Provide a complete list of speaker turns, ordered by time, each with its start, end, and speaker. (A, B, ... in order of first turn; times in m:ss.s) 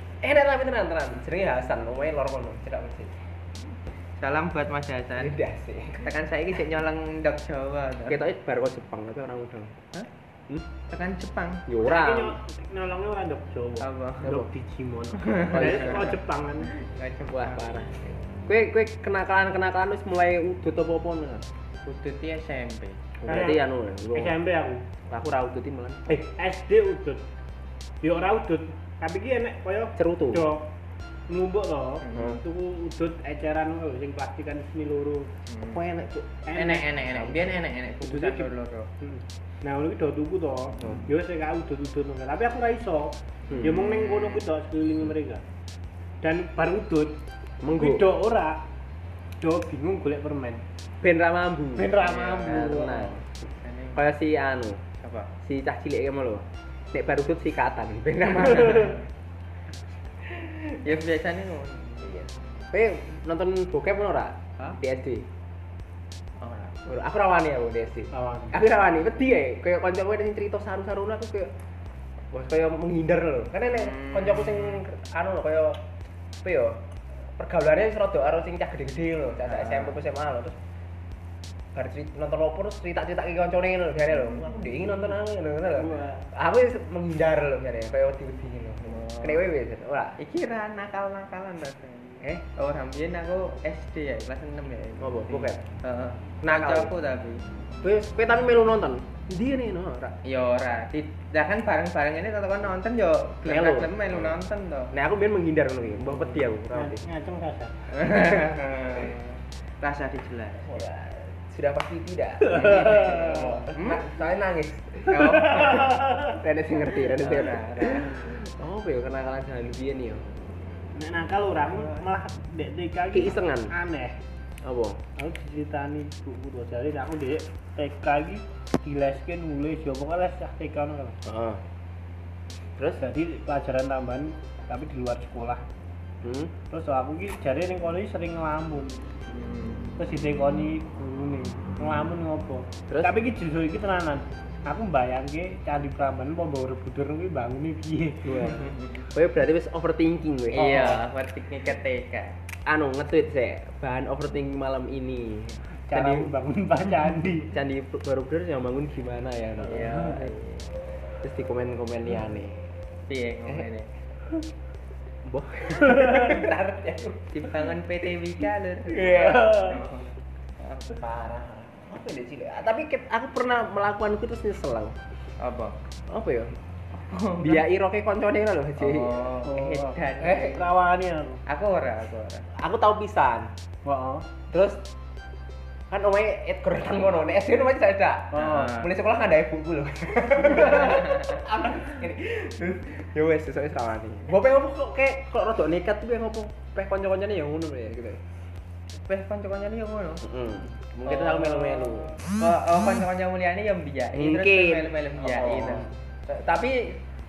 0:00.2-0:03.2 A
0:04.2-0:05.4 B
0:05.2-0:06.1 A
0:06.0-0:08.2 B
0:08.1-0:09.7 A
0:10.9-0:11.6 B
0:11.7-0:12.4 A
0:11.8-0:16.7 C
0:13.8-0:14.4 B
0:14.2-0:14.5 A
0:15.2-0:16.1 B
0:15.5-0:16.2 A
0:16.8-0:17.7 B
0:17.3-0:21.4 A
0:21.8-0:23.0 B
0:23.2-0:24.3 A
0:23.3-0:23.6 C
0:24.1-0:24.8 C
0:25.1-0:26.0 A
0:26.1-0:27.2 C
0:28.0-0:30.7 C
0:30.0-0:30.5 A
0:31.3-0:35.3 C
0:32.0-0:32.4 B
0:32.1-0:32.4 A
0:35.5-0:35.8 B
0:35.7-0:36.3 A
0:36.4-0:37.2 C
0:36.5-0:38.9 B
0:38.0-0:38.5 C
0:39.0-0:45.4 C
0:43.6-0:44.5 B
0:46.2-0:47.2 C
0:47.6-0:48.1 A
0:47.7-0:48.6 C
0:49.4-0:50.6 C
0:51.0-0:53.2 A
0:51.8-0:53.2 C
0:52.0-0:52.8 B
0:53.4-0:54.1 B
0:54.0-0:54.8 A
0:55.0-0:55.3 B
0:55.4-0:59.0 A
1:00.8-1:02.7 B
1:02.0-1:05.3 A
1:06.4-1:06.8 B
1:06.8-1:11.5 A
1:08.1-1:08.6 C
1:12.3-1:15.8 A
1:13.7-1:14.8 B
1:16.4-1:16.8 A
1:17.4-1:20.6 A
1:19.4-1:20.0 B
1:21.7-1:30.2 A
1:24.2-1:24.4 B
1:25.7-1:26.3 C
1:28.8-1:29.4 B
1:30.2-1:37.4 B
1:35.0-1:35.6 A
1:36.4-1:36.9 A
1:37.8-1:40.2 A
1:40.2-1:44.9 B
1:43.4-1:44.4 A
1:44.9-1:47.0 A
1:46.7-1:47.8 C
1:47.9-1:50.8 B
1:50.6-2:00.2 A
1:52.6-1:53.2 C
1:53.0-1:54.0 B
1:55.1-1:55.9 B
1:55.6-1:56.2 C
1:57.0-1:58.2 B
2:00.9-2:04.2 C
2:03.1-2:03.7 A
2:04.6-2:05.0 A
2:05.2-2:11.2 C
2:11.2-2:11.6 A
2:12.8-2:13.0 A
2:13.0-2:15.6 C
2:16.2-2:16.5 A
2:16.7-2:19.0 C
2:19.3-2:19.8 B
2:20.0-2:28.5 C
2:22.9-2:23.2 A
2:28.2-2:31.0 A
2:28.4-2:29.1 B
2:30.5-2:32.3 B
2:30.6-2:31.0 C
2:32.6-2:36.3 A
2:35.9-2:37.5 C
2:37.5-2:40.2 A
2:39.6-2:40.7 B
2:41.2-2:42.6 A
2:43.1-2:43.9 B
2:45.2-2:47.3 A
2:47.3-2:50.1 B
2:48.9-2:49.8 A
2:49.1-2:49.7 C
2:50.6-2:51.0 B
2:50.9-2:54.9 A
2:55.4-2:55.8 B
2:56.1-2:56.5 A
2:56.9-2:57.6 B
2:57.4-2:59.2 A
2:58.8-3:00.7 B
2:59.4-3:01.4 C
3:01.5-3:02.4 B
3:02.5-3:03.5 A
3:03.8-3:04.2 C
3:04.5-3:04.8 A
3:05.9-3:18.2 A
3:08.3-3:08.9 B
3:10.4-3:11.4 B
3:19.0-3:20.2 B
3:20.2-3:22.2 A
3:21.0-3:25.9 B
3:24.1-3:27.0 A